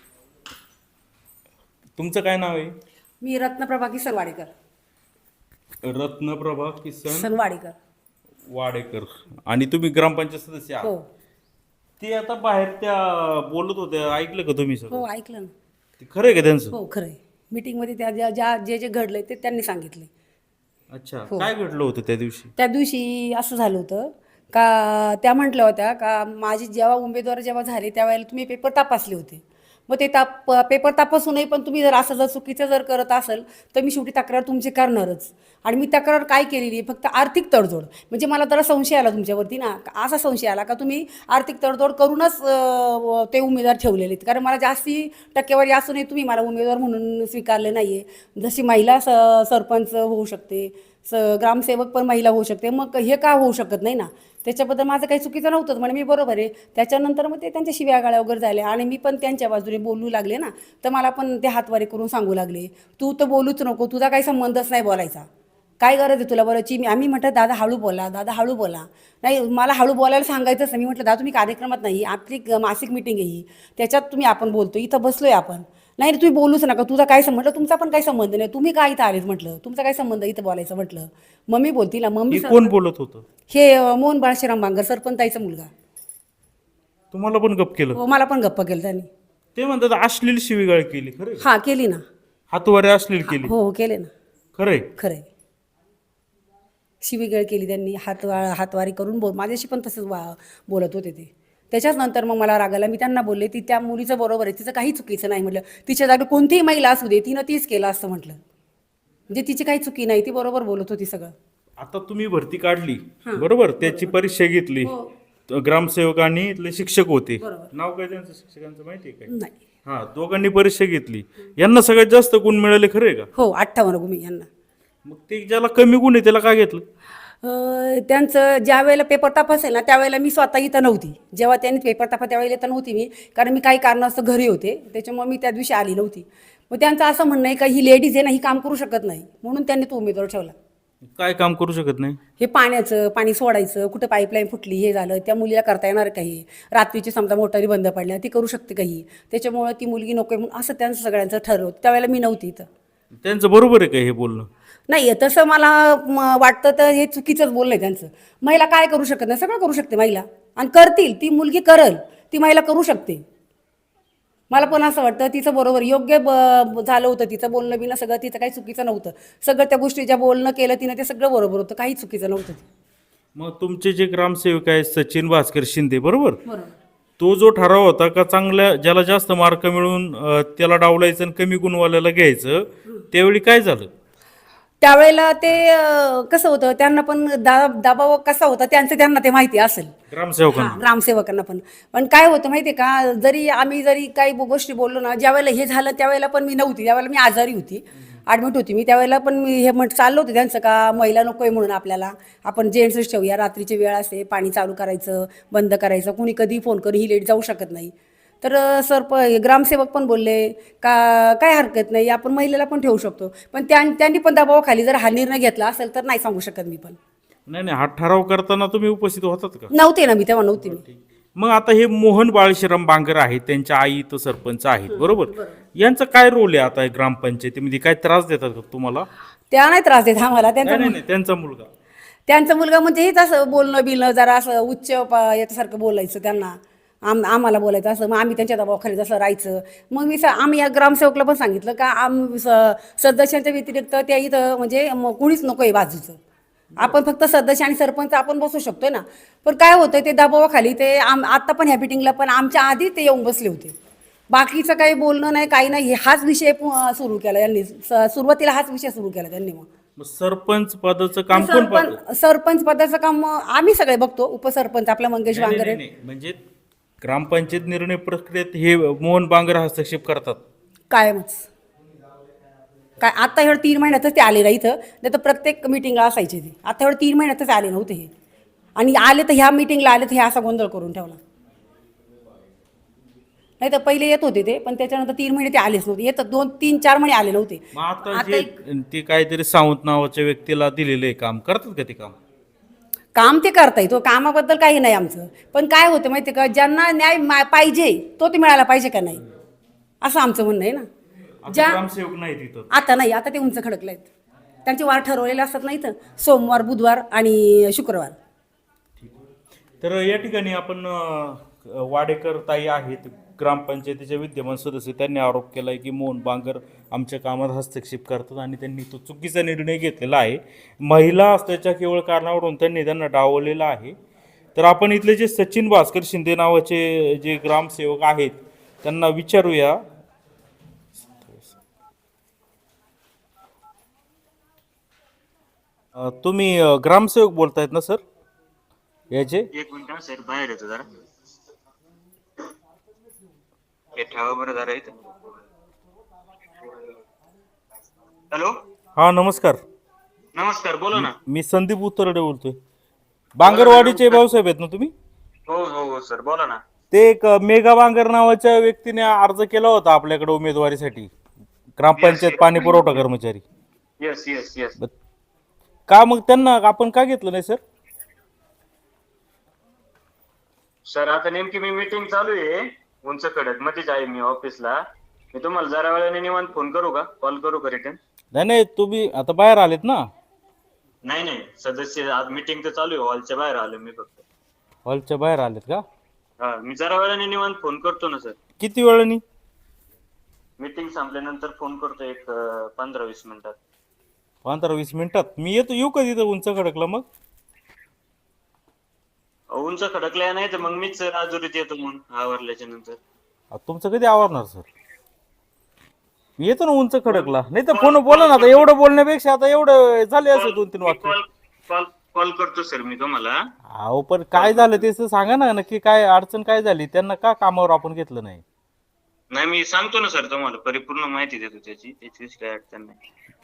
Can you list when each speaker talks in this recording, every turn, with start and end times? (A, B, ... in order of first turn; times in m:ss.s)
0:02.0-0:02.8 A
0:03.2-0:04.5 B
0:05.8-0:07.3 A
0:07.1-0:07.8 B
0:08.5-0:10.9 A
0:12.0-0:15.0 A
0:14.9-0:15.5 B
0:16.0-0:16.8 A
0:16.7-0:20.1 B
0:20.9-0:22.5 A
0:22.6-1:05.3 B
1:05.8-1:22.7 B
1:22.3-1:23.2 A
1:23.5-1:25.7 B
1:27.1-1:28.0 A
1:27.9-1:29.1 B
1:29.6-1:31.4 A
1:31.4-1:32.0 B
1:32.5-1:33.5 A
1:33.3-1:34.1 B
1:34.6-1:34.9 A
1:35.0-1:35.3 B
1:37.0-1:48.4 B
1:49.3-1:51.3 B
1:51.8-1:54.9 A
1:53.2-1:54.1 B
1:54.8-1:55.1 B
1:55.5-1:59.3 A
1:57.4-1:57.7 B
1:59.9-2:03.3 A
2:03.4-2:04.5 B
2:05.1-2:06.8 A
2:07.4-2:20.5 B
2:21.1-2:22.2 A
2:22.4-2:32.7 B
2:33.2-2:34.5 A
2:34.9-2:43.2 B
2:44.5-2:52.6 B
2:53.4-2:56.4 A
2:56.4-2:56.8 B
2:57.2-3:03.9 A
3:04.8-3:09.9 B
3:10.1-3:10.8 A
3:10.5-3:37.0 B
3:37.5-3:39.7 A
3:39.7-3:40.8 B
3:40.6-3:49.1 A
3:44.9-3:45.6 B
3:49.5-3:51.0 B
3:50.6-3:51.7 A
3:52.3-4:06.2 B
4:06.8-4:13.8 B
4:14.3-4:19.7 B
4:20.0-4:22.0 A
4:21.3-4:25.8 B
4:25.3-4:26.4 A
4:27.0-4:30.4 A
4:30.9-4:31.5 B
4:33.0-4:38.1 B
4:38.8-4:41.2 B
4:43.6-4:48.5 B
4:47.7-4:52.2 A
4:53.2-4:59.2 B
5:00.0-5:00.8 B
5:01.4-5:02.7 A
5:01.5-5:01.8 B
5:02.7-5:04.1 B
5:04.6-5:08.2 B
5:09.8-5:24.0 A
5:24.6-5:29.8 A
5:31.2-5:31.5 A
5:36.0-5:38.0 A
5:39.1-5:39.5 A
5:39.5-5:40.9 C
5:44.0-5:45.2 C
5:46.6-5:46.9 C
5:49.0-5:49.6 A
5:50.3-5:51.1 C
5:50.9-5:52.6 A
5:53.4-5:54.9 A
5:53.4-5:54.2 C
5:55.5-5:56.6 C
5:56.9-6:01.1 A
6:01.8-6:03.4 A
6:02.0-6:03.0 C
6:04.0-6:04.8 C
6:05.9-6:07.6 A
6:10.9-6:14.8 C
6:15.3-6:18.0 C
6:18.3-6:20.0 A
6:21.0-6:24.2 C
6:24.8-6:25.8 A
6:26.4-6:28.4 C
6:28.6-6:29.2 A
6:30.6-6:33.6 C
6:34.4-6:37.0 A
6:39.5-6:43.0 C
6:43.5-6:44.7 A
6:46.4-6:51.2 A
6:47.1-6:48.7 C
6:50.3-6:53.4 C
6:53.7-6:58.4 A
6:54.3-6:54.9 C
6:59.3-7:03.0 C